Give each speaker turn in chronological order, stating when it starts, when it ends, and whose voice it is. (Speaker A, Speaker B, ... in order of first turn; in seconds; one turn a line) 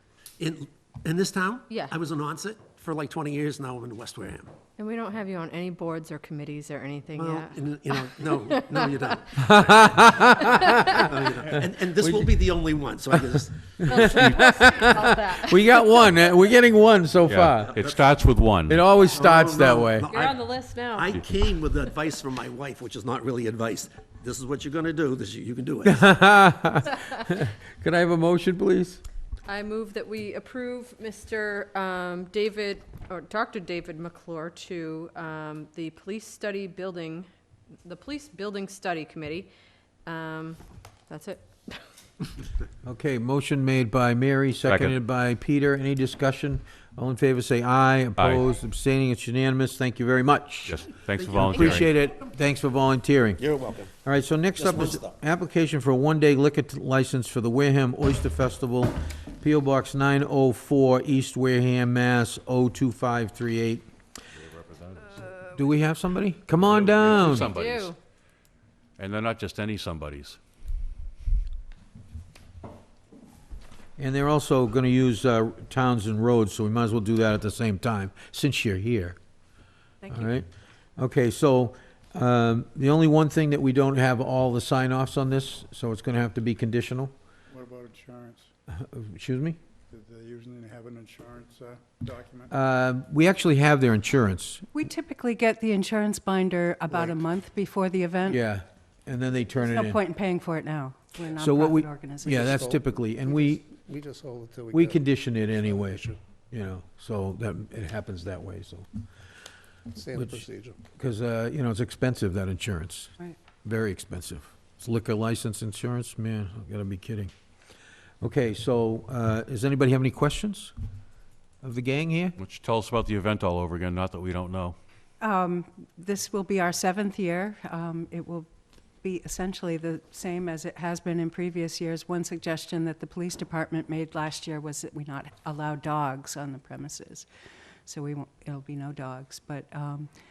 Speaker A: 0.4-4.5
Speaker B: 1.7-1.9
Speaker B: 4.8-8.9
Speaker A: 7.2-10.1
Speaker C: 9.4-11.1
Speaker B: 10.2-11.0
Speaker A: 10.9-14.1
Speaker C: 11.9-12.4
Speaker C: 13.4-17.7
Speaker B: 13.8-16.1
Speaker D: 17.3-18.8
Speaker A: 17.6-18.1
Speaker C: 18.7-20.1
Speaker A: 19.1-26.0
Speaker B: 20.1-21.1
Speaker C: 25.9-29.0
Speaker B: 29.5-37.3
Speaker B: 37.8-39.5
Speaker B: 40.1-41.9
Speaker C: 42.8-50.9
Speaker D: 44.7-45.0
Speaker D: 50.7-51.9
Speaker A: 51.4-51.8
Speaker C: 51.4-53.5
Speaker A: 53.4-53.9
Speaker C: 54.0-63.9
Speaker A: 54.6-55.1
Speaker D: 64.4-65.2
Speaker C: 65.5-67.5
Speaker D: 66.6-67.9
Speaker B: 67.3-68.0
Speaker D: 69.0-70.4
Speaker C: 74.0-79.2
Speaker C: 80.1-87.1
Speaker E: 87.5-88.5
Speaker C: 88.7-89.6
Speaker E: 89.9-92.5
Speaker C: 92.5-94.7
Speaker F: 94.7-98.4
Speaker G: 96.9-97.2
Speaker C: 98.3-100.0
Speaker F: 99.6-102.5
Speaker C: 101.3-103.6
Speaker G: 102.2-106.2
Speaker C: 104.7-108.9
Speaker G: 109.9-110.8
Speaker C: 110.2-110.4
Speaker C: 111.0-117.3
Speaker C: 118.2-120.7
Speaker C: 121.6-122.3
Speaker D: 122.4-124.8
Speaker F: 125.2-128.5
Speaker F: 129.0-137.3
Speaker F: 137.9-140.1